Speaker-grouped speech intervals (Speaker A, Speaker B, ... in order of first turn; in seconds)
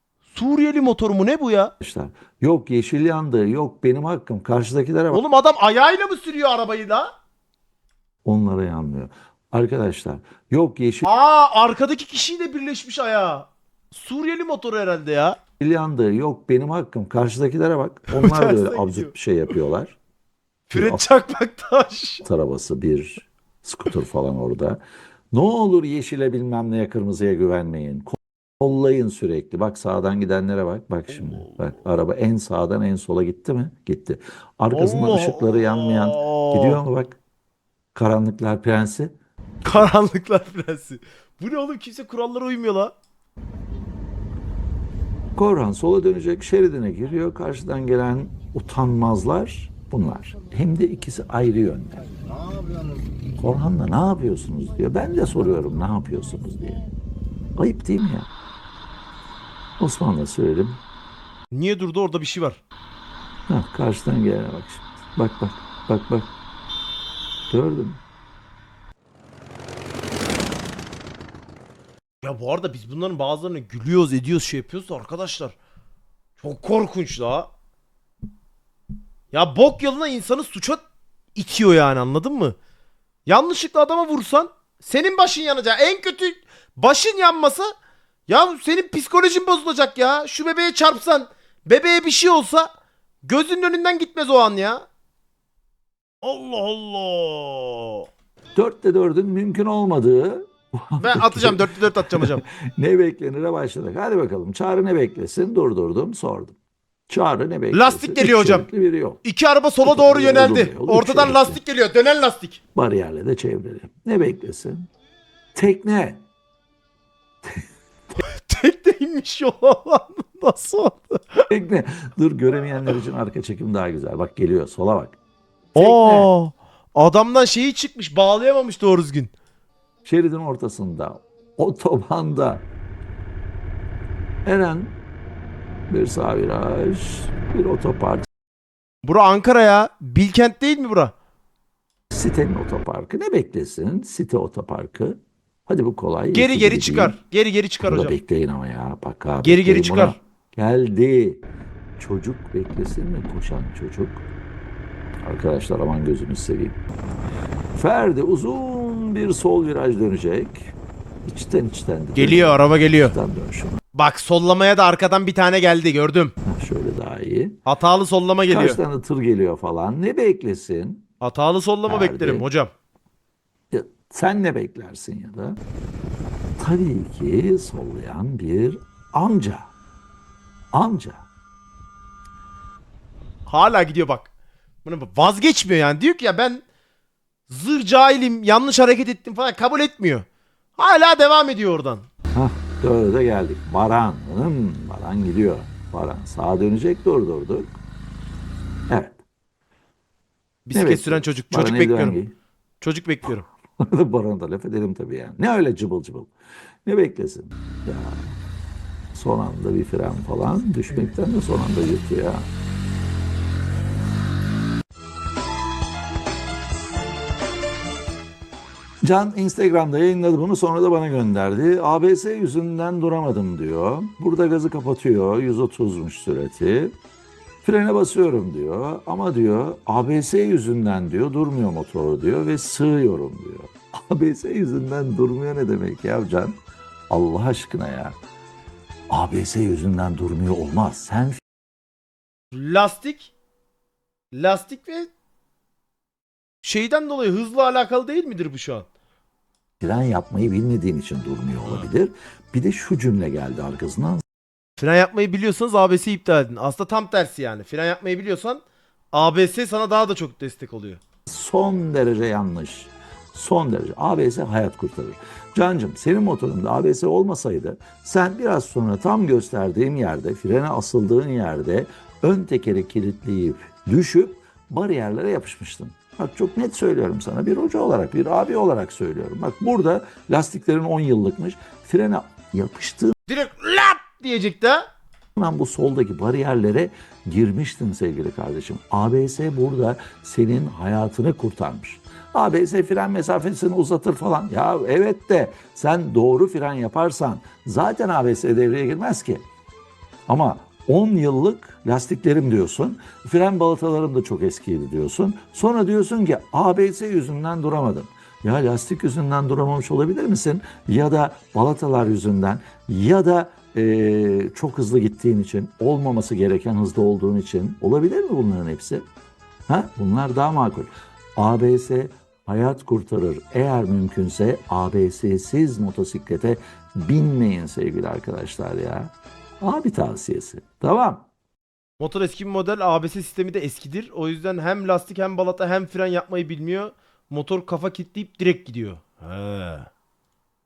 Speaker A: 0.3-1.7, 5.1-7.1, 11.1-15.4, 18.1-19.1, 20.7-22.2, 31.1-31.6, 34.7-36.8, 39.6-42.9, 61.5-62.6, 72.2-75.6, 76.4-77.5, 79.3-80.8, 81.3-82.6, 83.3-87.7, 88.3-92.7, 93.2-94.8, 96.2-98.1, 101.0-102.4, 107.7-108.7, 109.2-112.6, 118.2-121.5, 125.8-129.3, 139.0-141.1, 146.3-148.2, 149.4-150.2, 162.2-163.2, 163.9-166.3, 167.7-168.8, 171.2-172.7, 183.5-184.3, 184.8-186.6, 187.5-190.2, 190.8-192.1, 200.7-202.2, 202.8-203.5, 242.5-243.3, 244.3-245.1, 246.6-248.9, 251.6-251.9, 254.8-258.6, 259.1-261.0, 283.3-284.9, 332.0-339.9
Speaker B: 1.8-5.2, 8.2-11.1, 15.6-20.0, 20.7-21.1, 22.2-24.8, 25.3-37.2, 37.9-39.1, 45.4-52.1, 53.4-56.8, 57.6-58.3, 59.8-60.8, 63.5-66.3, 67.5-68.0, 98.6-106.6, 107.1-109.2, 109.8-111.6, 112.8-114.9, 115.5-116.2, 121.5-125.2, 125.7-126.3, 130.1-132.7, 134.4-135.0, 135.9-138.3, 142.1-147.2, 147.8-151.4, 152.0-154.2, 155.2-156.8, 157.8-160.7, 161.2-163.8, 166.4-167.6, 168.5-171.1, 171.9-172.4, 173.7-175.6, 176.6-179.7, 180.7-181.3, 192.3-197.8, 198.9-199.2, 200.7-202.3, 203.8-206.3, 206.8-208.3, 209.1-212.5, 219.0-226.9, 227.6-236.6, 237.1-238.2, 239.1-241.4, 249.8-254.2, 261.3-283.1, 285.4-299.5, 300.3-319.1, 319.7-331.3